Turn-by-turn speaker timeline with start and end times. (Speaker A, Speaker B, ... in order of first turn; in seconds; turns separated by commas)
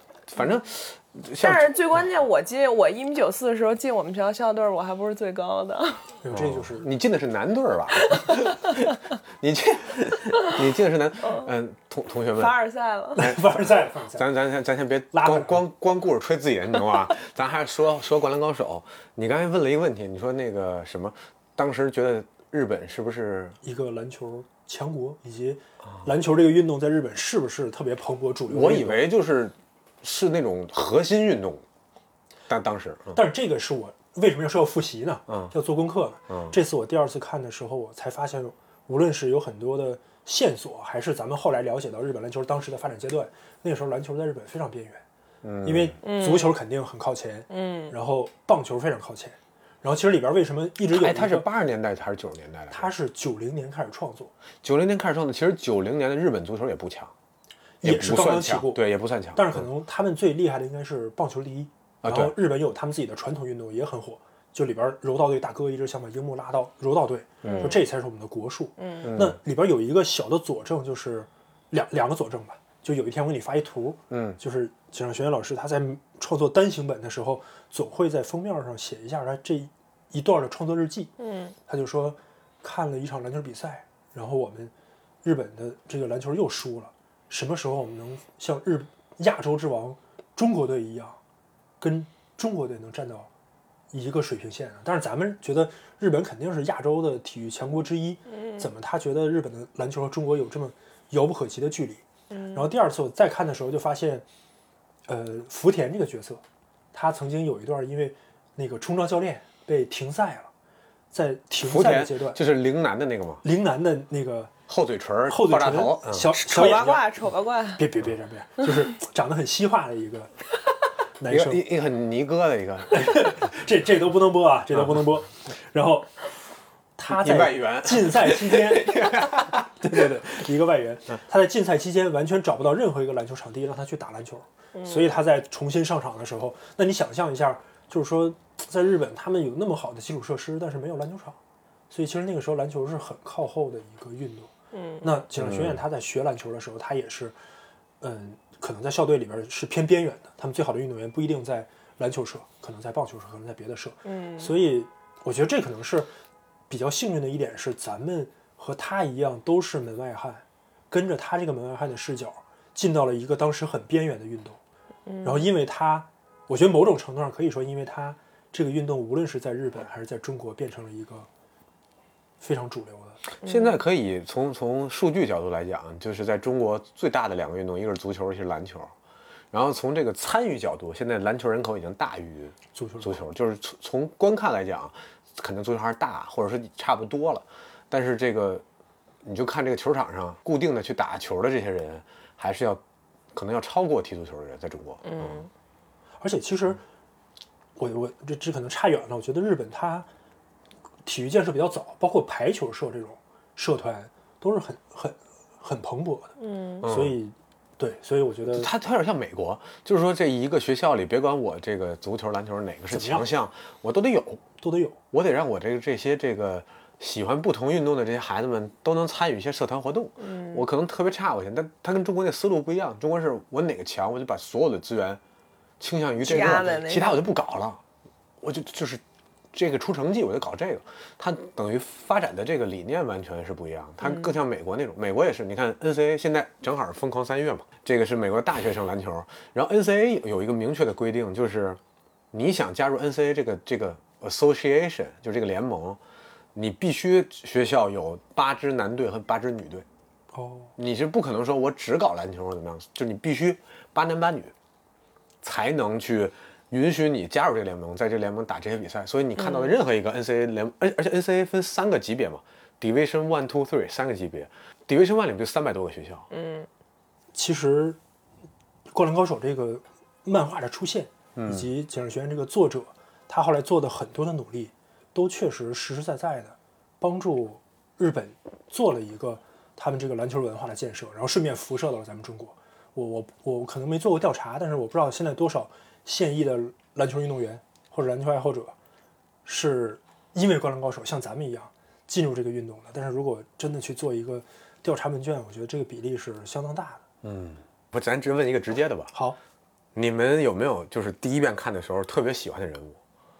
Speaker A: 0.3-1.7, Speaker B: 1.4-6.1, Speaker C: 6.2-6.9, Speaker A: 6.3-12.5, Speaker B: 12.4-13.3, Speaker C: 13.2-14.2, Speaker A: 13.2-23.6, Speaker C: 15.1-15.6, Speaker C: 23.6-29.0, Speaker A: 28.5-31.6, Speaker A: 32.5-33.2, Speaker C: 33.1-45.0, Speaker A: 35.3-35.5, Speaker A: 36.3-36.5, Speaker A: 45.4-46.0, Speaker C: 45.6-51.5, Speaker B: 46.0-46.6, Speaker B: 47.5-47.9, Speaker A: 50.9-52.9, Speaker C: 52.7-54.3, Speaker A: 54.6-57.1, Speaker C: 57.8-81.1, Speaker A: 57.8-59.7, Speaker A: 62.0-62.3, Speaker A: 67.4-67.8, Speaker B: 67.4-67.8, Speaker B: 68.8-69.1, Speaker A: 69.0-69.4, Speaker A: 74.1-74.4, Speaker B: 81.2-81.5, Speaker C: 81.7-84.7, Speaker C: 85.2-91.2, Speaker C: 91.8-93.3, Speaker C: 93.9-104.2, Speaker B: 98.3-98.7, Speaker B: 102.3-102.7, Speaker C: 105.1-106.4, Speaker C: 106.9-110.5, Speaker C: 111.1-112.4, Speaker A: 111.6-113.4, Speaker C: 113.4-114.5, Speaker A: 114.7-116.3, Speaker C: 115.3-117.1, Speaker B: 116.3-117.8, Speaker C: 117.8-120.3, Speaker C: 121.2-121.6, Speaker A: 121.3-123.5, Speaker C: 122.9-126.1, Speaker C: 127.0-141.4, Speaker A: 127.1-130.1, Speaker B: 134.8-135.1, Speaker C: 141.9-144.5, Speaker B: 144.7-145.2, Speaker C: 145.0-147.4, Speaker A: 145.4-145.8, Speaker C: 148.0-156.1, Speaker B: 154.1-154.6, Speaker C: 156.7-164.6, Speaker B: 165.1-165.5, Speaker C: 165.2-171.3, Speaker C: 172.4-173.2, Speaker A: 173.4-178.9, Speaker B: 173.4-173.8, Speaker A: 179.5-188.6, Speaker C: 182.8-183.2, Speaker A: 189.2-192.8, Speaker A: 193.3-195.5, Speaker B: 195.0-195.5, Speaker C: 196.2-196.8, Speaker C: 197.8-200.1, Speaker C: 201.1-208.7, Speaker B: 206.4-206.8, Speaker A: 206.8-207.2, Speaker A: 208.5-214.4, Speaker C: 212.9-213.3, Speaker C: 214.6-215.0, Speaker A: 215.1-225.2, Speaker B: 220.2-220.7, Speaker A: 225.8-227.8, Speaker B: 226.2-227.2, Speaker A: 228.4-229.0, Speaker A: 229.5-241.8, Speaker A: 242.3-246.0, Speaker A: 246.6-249.9, Speaker C: 250.3-250.7, Speaker A: 250.8-254.5, Speaker A: 255.4-266.3, Speaker B: 259.4-259.8, Speaker B: 266.3-266.7, Speaker C: 267.3-268.0, Speaker C: 268.9-288.8, Speaker A: 271.4-271.7, Speaker C: 289.5-297.0, Speaker A: 297.2-299.1, Speaker C: 299.1-299.4, Speaker A: 299.9-303.0